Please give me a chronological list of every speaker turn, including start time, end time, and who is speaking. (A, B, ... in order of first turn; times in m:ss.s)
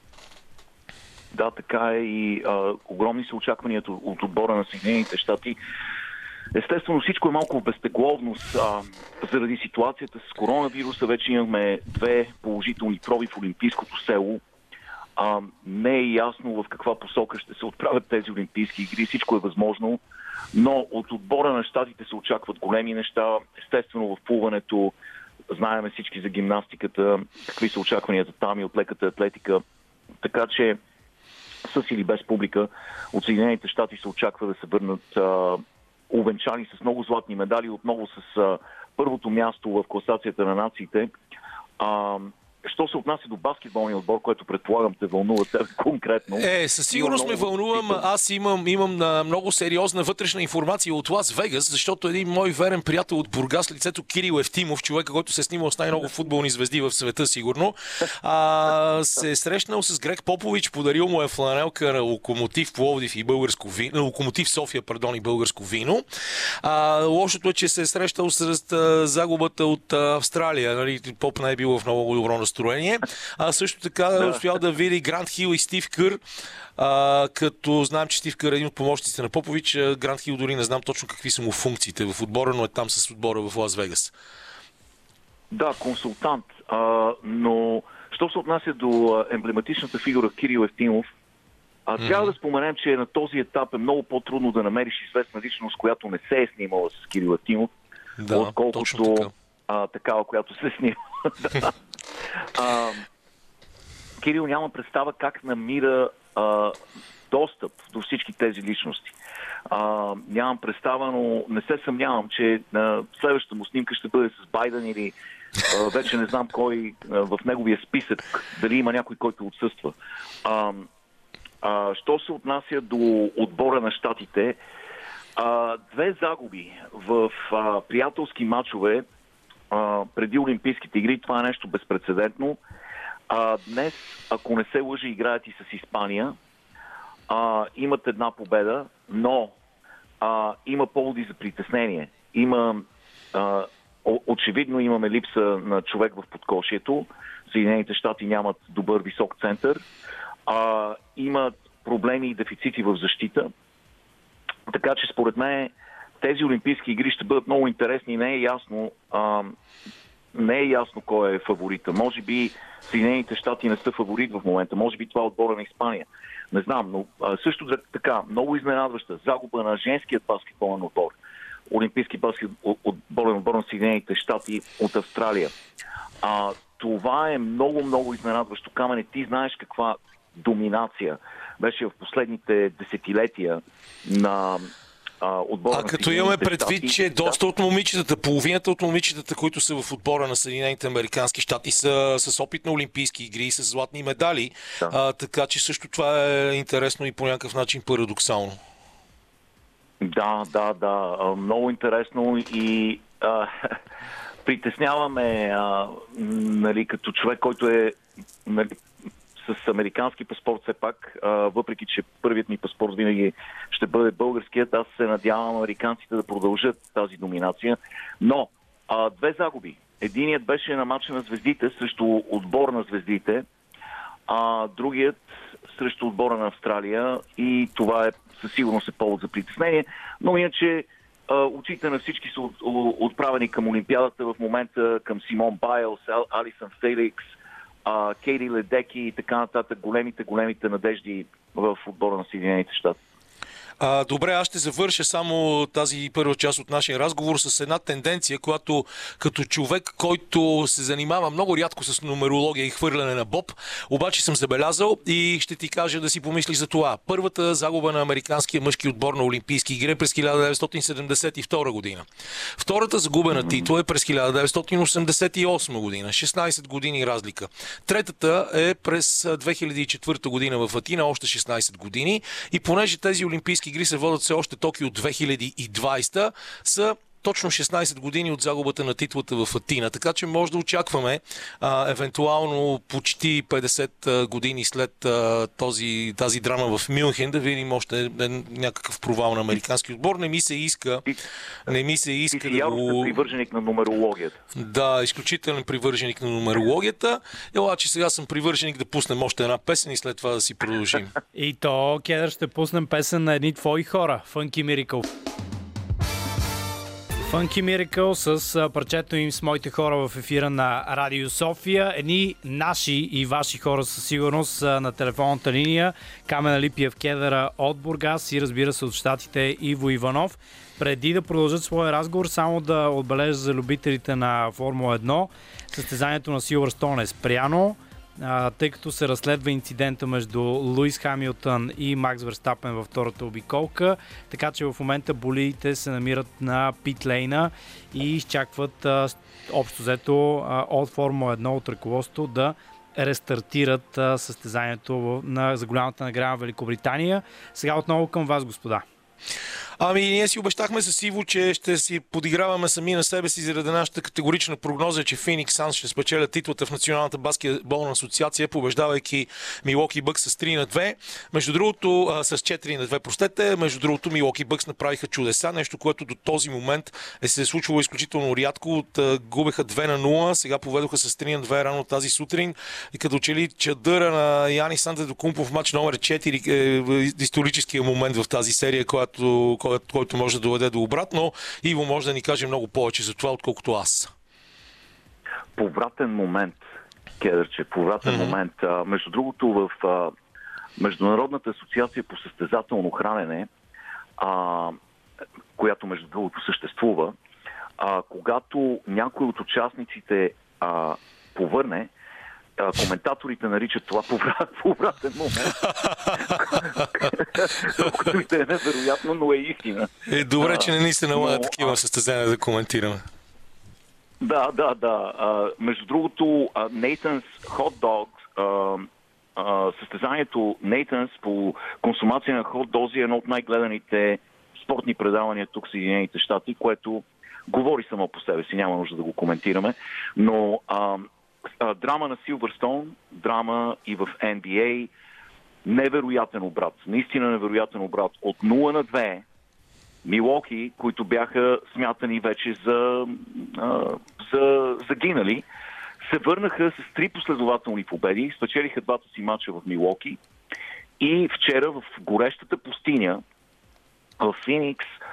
0:01.3-0:05.6 A
0:06.5-0:14.4 A
0:15.2-0:20.0 A
0:20.5-0:24.9 A
0:25.5-0:29.6 A
0:30.2-0:30.8 A
0:31.6-0:41.1 A
0:41.8-0:48.0 A
0:46.3-1:06.0 B
1:06.6-1:16.2 B
1:16.8-1:24.1 B
1:25.5-1:31.1 A
1:31.9-1:37.7 A
1:32.0-1:32.3 B
1:38.2-1:39.3 B
1:38.3-1:41.7 A
1:42.6-1:43.0 A
1:44.2-1:46.8 A
1:47.3-1:49.1 A
1:49.7-1:55.1 A
1:55.6-2:00.9 A
2:01.6-2:04.6 A
2:05.4-2:09.0 A
2:09.7-2:12.6 A
2:13.3-2:16.4 A
2:17.3-2:19.6 A
2:20.2-2:29.8 A
2:30.4-2:33.5 A
2:34.7-2:39.6 A
2:40.3-2:51.2 A
2:51.7-2:55.5 A
2:56.2-3:07.0 A
3:05.7-3:18.6 B
3:20.0-3:23.8 A
3:24.4-3:28.8 A
3:29.4-3:43.5 A
3:44.3-3:57.3 A
3:57.8-4:03.0 A
4:03.8-4:51.1 B
4:51.6-4:53.2 B
4:52.3-4:54.4 A
4:54.6-5:01.1 B
5:01.3-5:05.1 C
5:07.2-5:48.8 C
5:49.8-6:24.1 B
6:25.6-6:26.6 A
6:27.2-6:30.1 A
6:28.0-6:28.3 B
6:30.8-6:33.5 A
6:34.2-6:34.8 A
6:35.6-6:37.2 A
6:37.8-6:41.9 A
6:42.6-6:45.6 A
6:46.2-6:51.8 A
6:50.0-6:53.0 B
6:54.2-7:11.1 A
7:11.6-7:14.9 A
7:15.6-7:19.2 A
7:20.0-7:25.4 A
7:26.0-7:30.2 A
7:31.0-7:33.2 A
7:34.2-7:34.9 A